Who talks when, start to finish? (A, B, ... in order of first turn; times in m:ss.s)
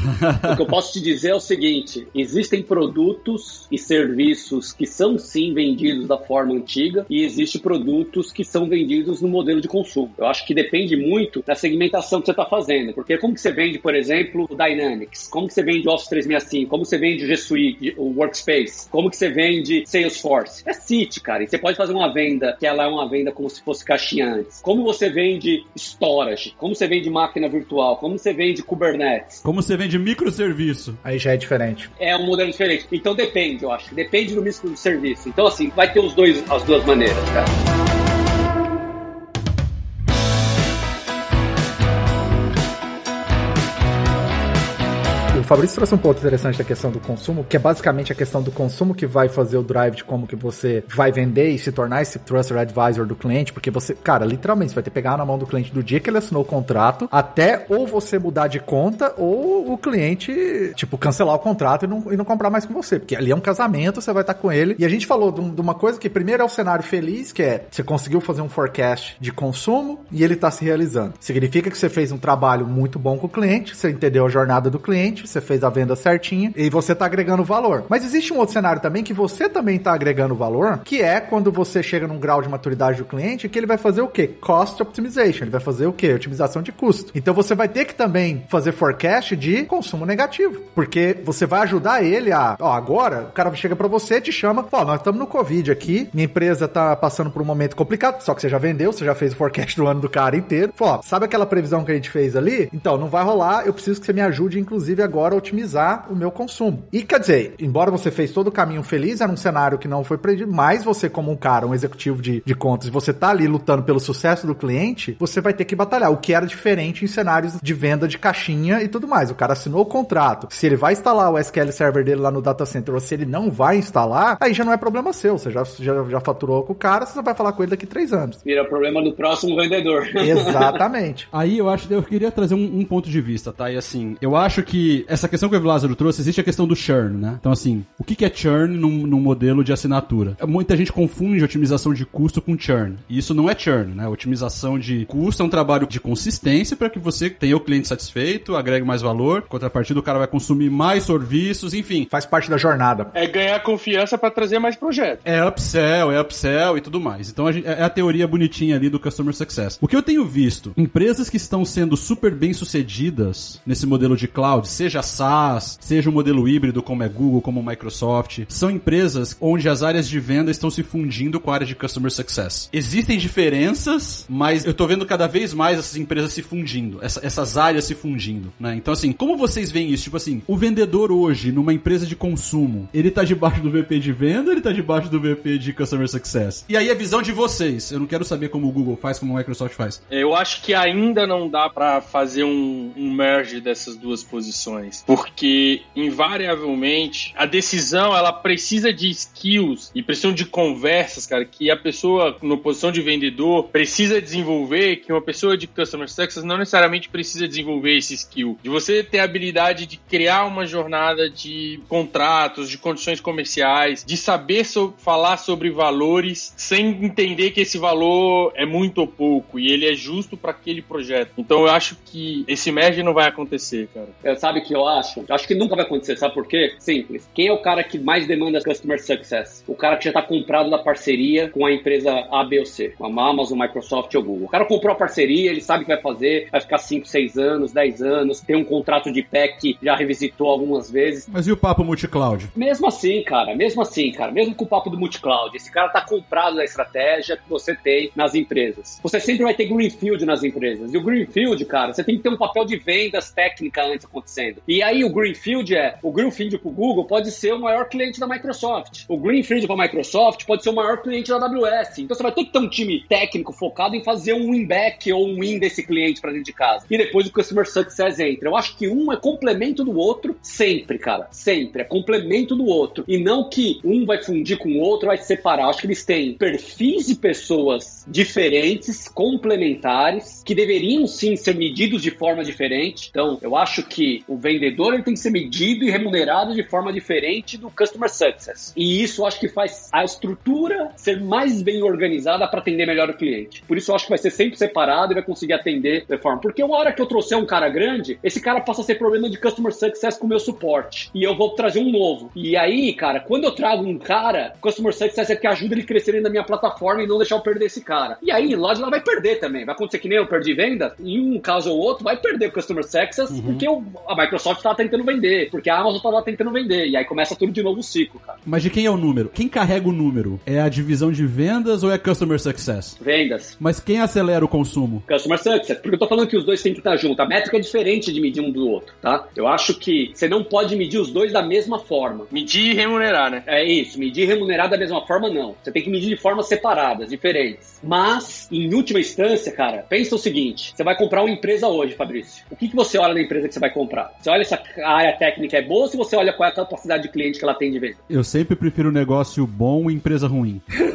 0:00.2-0:00.5 A
0:00.4-0:29.4 B
0:29.4-0:31.0 A
0:31.0-0:31.9 C
0:32.0-0:37.6 B
0:45.3-2:08.4 C
2:08.4-2:10.8 B
2:10.2-2:11.3 C
2:11.3-2:32.1 A
2:32.1-2:33.1 C
2:33.1-2:35.2 D
2:35.2-3:10.0 A
3:10.1-3:44.1 D
3:44.2-4:01.3 B
4:01.3-4:02.5 A
4:02.5-5:18.4 B
5:13.3-5:13.6 A
5:18.4-5:23.0 A
5:23.0-5:23.6 B
5:23.6-5:25.0 A
5:25.1-5:32.3 B
5:32.3-5:33.4 D
5:33.5-5:48.0 B
5:48.1-5:50.6 A